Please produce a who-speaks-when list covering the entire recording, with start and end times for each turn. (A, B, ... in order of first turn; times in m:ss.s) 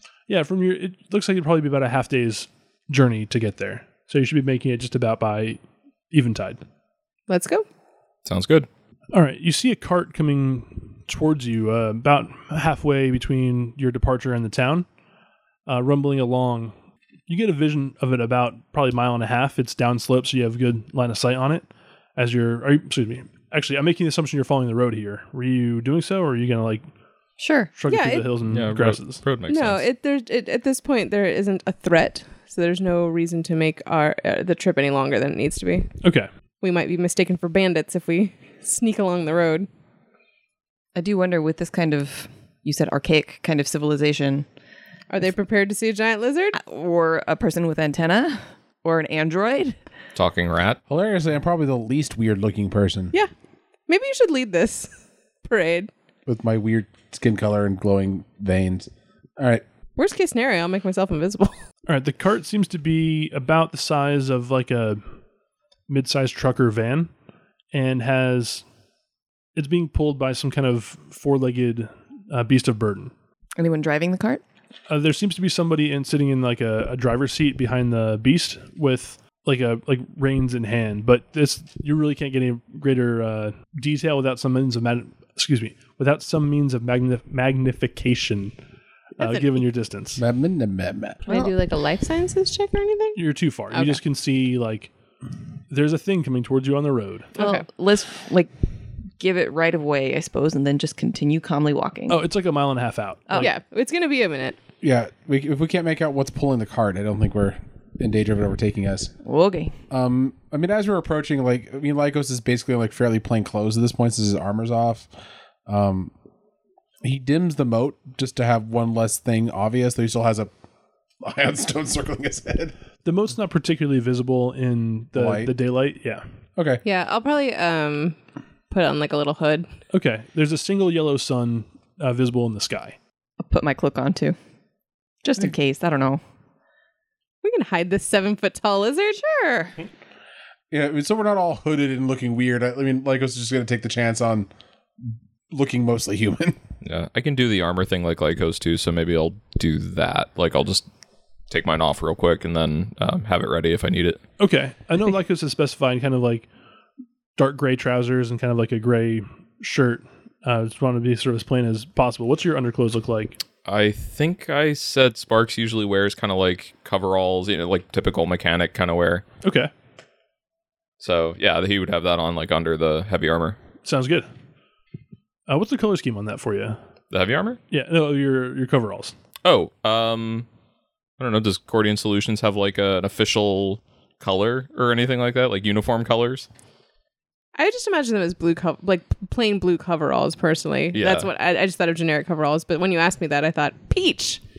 0:00.3-0:06.6 A
0:07.3-0:07.6 B
0:08.2-0:08.7 C
0:09.1-0:14.9 A
0:15.7-0:16.7 A
0:17.3-0:26.8 A
0:27.4-0:27.7 D
0:27.7-0:29.2 A
0:27.9-0:28.3 B
0:28.4-0:29.8 C
0:29.5-0:35.9 B
0:36.0-0:36.3 A
0:36.6-0:39.7 B
0:40.9-0:44.4 D
0:45.1-0:46.6 B
0:46.5-0:49.8 D
0:50.2-0:50.8 C
0:50.9-0:53.1 E
0:53.9-0:54.9 B
0:55.4-0:55.9 B
0:56.2-0:59.6 E
1:00.0-1:01.6 B
1:01.8-1:05.0 A
1:05.9-1:07.1 A
1:07.7-1:08.6 A
1:09.5-1:13.1 A
1:13.6-1:14.4 D
1:14.9-1:28.6 A
1:29.2-1:30.2 A
1:29.2-1:29.4 B
1:30.2-1:31.2 E
1:31.3-1:31.5 D
1:31.3-1:33.2 B
1:33.1-1:34.9 A
1:33.7-1:34.0 B
1:35.7-1:37.3 A
1:37.4-1:37.6 B
1:37.4-1:38.5 D
1:39.2-1:42.2 D
1:42.1-1:43.5 A
1:43.4-1:44.6 B
1:44.8-1:49.1 E
1:49.2-1:49.7 D
1:49.9-1:55.1 E
1:55.7-1:56.1 E
1:57.0-2:00.5 E
2:01.2-2:02.7 E
2:03.0-2:06.2 A
2:05.1-2:05.5 E
2:06.6-2:06.8 E
2:06.8-2:08.2 B
2:08.7-2:09.7 B
2:09.9-2:13.0 A
2:13.4-2:14.3 D
2:15.2-2:16.2 D
2:17.4-2:19.2 B
2:19.2-2:19.8 D
2:20.7-2:24.5 E
2:25.0-2:26.6 E
2:26.8-2:30.8 C
2:31.5-2:34.2 C
2:34.4-2:36.5 A
2:37.4-2:43.4 A
2:43.6-2:49.2 C
2:49.4-2:49.7 A
2:51.0-2:53.6 C
2:53.8-2:54.3 A
2:55.5-2:56.8 A
2:57.1-2:57.6 C
2:57.7-2:59.1 A
2:59.4-3:00.4 C
3:01.2-3:06.5 C
3:07.5-3:14.4 B
3:10.9-3:11.3 C